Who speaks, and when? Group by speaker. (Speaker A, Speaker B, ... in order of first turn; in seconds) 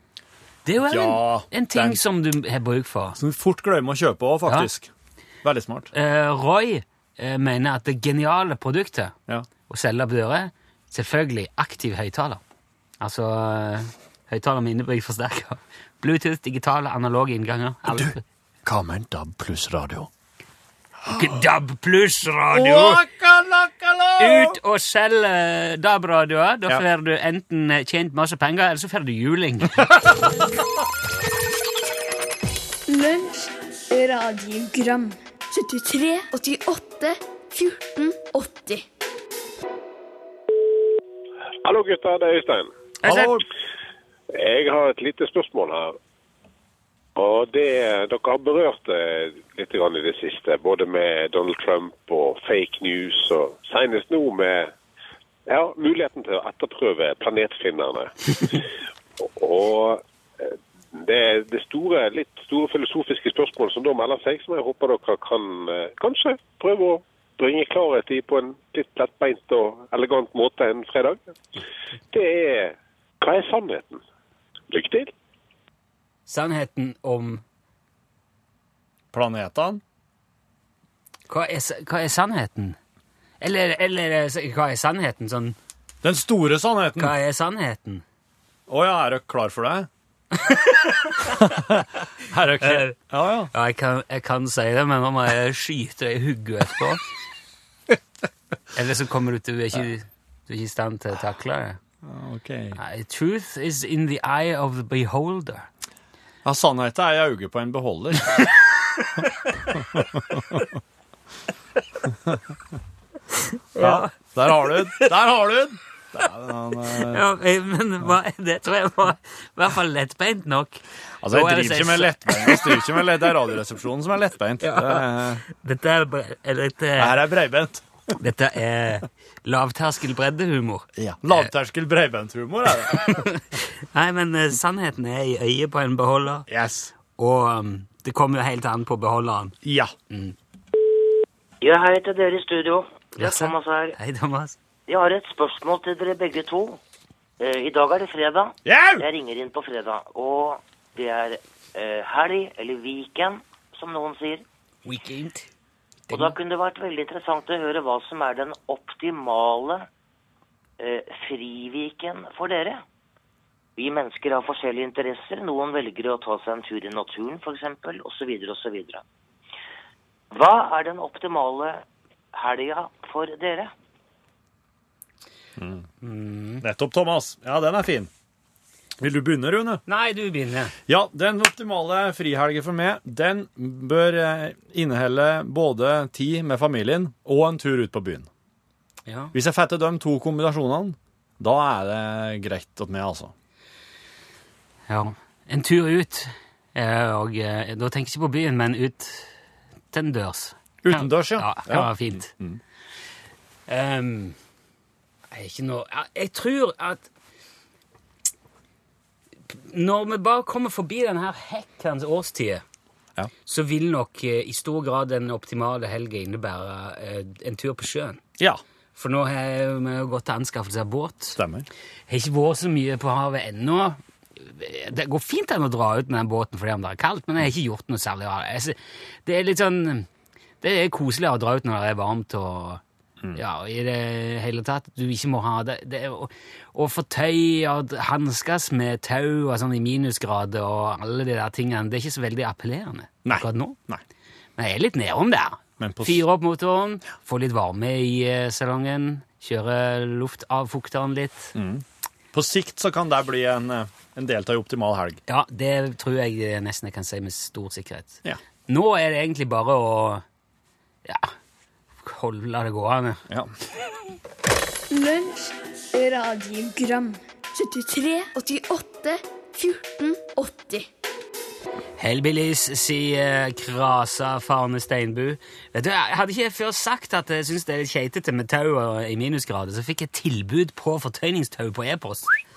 Speaker A: 0.6-3.2, 5.9-9.1, 9.7-12.4, 13.0-18.2, 21.1-23.0, 24.2-30.0, 43.0-43.4, 76.3-77.4, 81.3-82.8, 83.4-85.6, 87.0-88.0, 90.4-91.4, 92.6-93.0, 93.5-97.0, 98.7-101.8, 102.8-105.7, 109.2-109.7, 113.7-115.1, 116.9-123.2, 124.6-127.2, 128.2-131.5, 132.9-136.4, 137.2-139.6, 140.1-140.3, 143.2-144.5, 154.8-155.5, 156.1-156.3, 176.0-176.6, 179.9-180.7, 189.1-189.3, 194.9-199.3, 199.9-202.3, 203.7-204.4, 205.3-207.0, 209.5-212.6, 213.4-218.2, 218.9-221.4, 222.1-230.1, 230.6-232.8, 233.3-243.8, 244.6-251.5, 255.3-260.2, 261.0-261.3, 262.0-263.2, 272.0-282.4
Speaker B: 0.8-2.0, 3.2-4.9, 5.4-5.9, 17.9-18.1, 18.6-20.1, 21.0-21.4, 22.5-24.6, 43.0-43.4, 79.1-79.8, 86.0-87.1, 88.7-89.9, 91.2-93.5, 102.0-102.8, 106.4-108.5, 109.7-110.7, 113.8-117.2, 121.2-125.4, 127.0-128.1, 130.9-133.2, 136.5-136.9, 139.6-139.9, 148.6-149.1, 175.6-175.8, 176.6-178.1, 179.0-179.8, 180.9-188.3, 189.3-193.3, 200.8-202.6, 221.3-221.7, 243.2-244.0, 245.8-246.2, 251.5-255.2, 263.3-263.5
Speaker C: 32.9-38.8, 264.9-270.9
Speaker D: 41.6-42.7, 44.3-45.9, 47.1-54.7, 55.5-71.2, 72.1-74.0, 74.7-75.1
Speaker E: 141.6-143.9, 144.9-146.8, 147.4-154.4, 156.1-159.9, 160.8-162.8, 163.8-169.0, 170.3-173.7